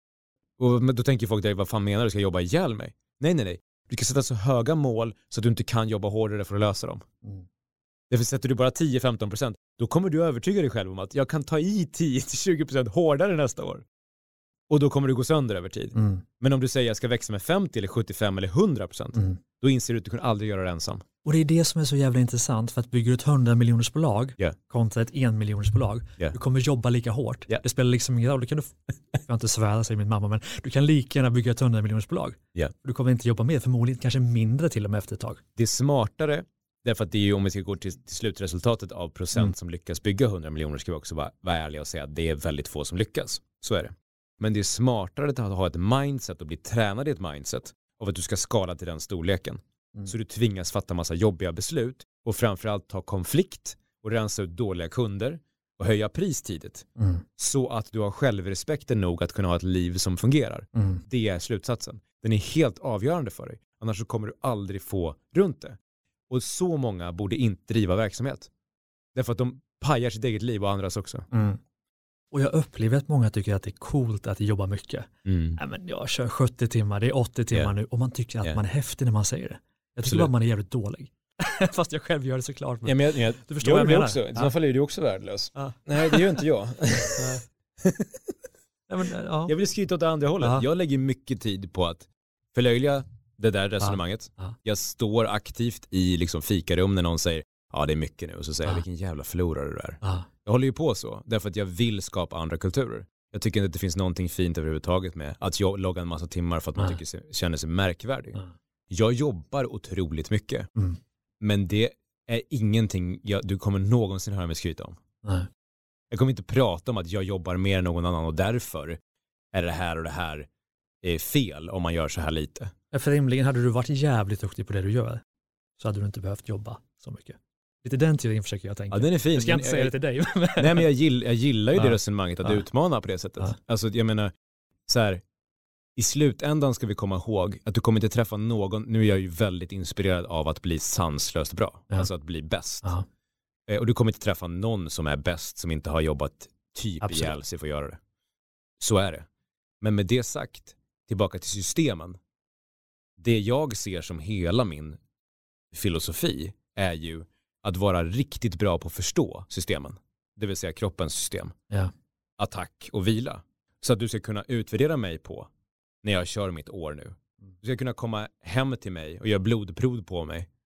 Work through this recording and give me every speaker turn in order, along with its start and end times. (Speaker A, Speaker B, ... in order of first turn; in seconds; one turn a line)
Speaker A: 0.6-7.0
Speaker A: 8.1-13.8
Speaker A: 14.7-21.0
Speaker B: 15.9-16.2
Speaker B: 21.2-35.4
Speaker A: 35.6-56.9
Speaker B: 57.0-57.2
Speaker A: 57.4-65.8
Speaker B: 60.8-61.0
Speaker A: 66.3-68.5
Speaker A: 69.1-71.3
Speaker B: 71.3-71.6
Speaker B: 72.3-84.5
Speaker A: 75.2-75.6
Speaker A: 80.0-80.3
Speaker A: 82.8-88.3
Speaker B: 85.5-86.4
Speaker B: 87.1-87.4
Speaker B: 88.9-89.5
Speaker A: 89.5-110.7
Speaker B: 93.8-94.5
Speaker A: 111.4-115.0
Speaker B: 115.2-115.5
Speaker A: 116.1-119.0
Speaker A: 119.5-120.5
Speaker A: 121.0-122.7
Speaker B: 122.9-125.2
Speaker B: 125.8-130.9
Speaker A: 128.9-129.9
Speaker A: 130.6-134.3
Speaker B: 131.8-132.6
Speaker A: 134.9-135.2
Speaker A: 135.9-143.0
Speaker A: 143.7-148.0
Speaker B: 147.0-147.3
Speaker A: 148.8-149.2
Speaker A: 149.8-152.2
Speaker A: 153.2-155.0
Speaker A: 155.7-161.5
Speaker A: 162.4-165.5
Speaker A: 166.0-170.5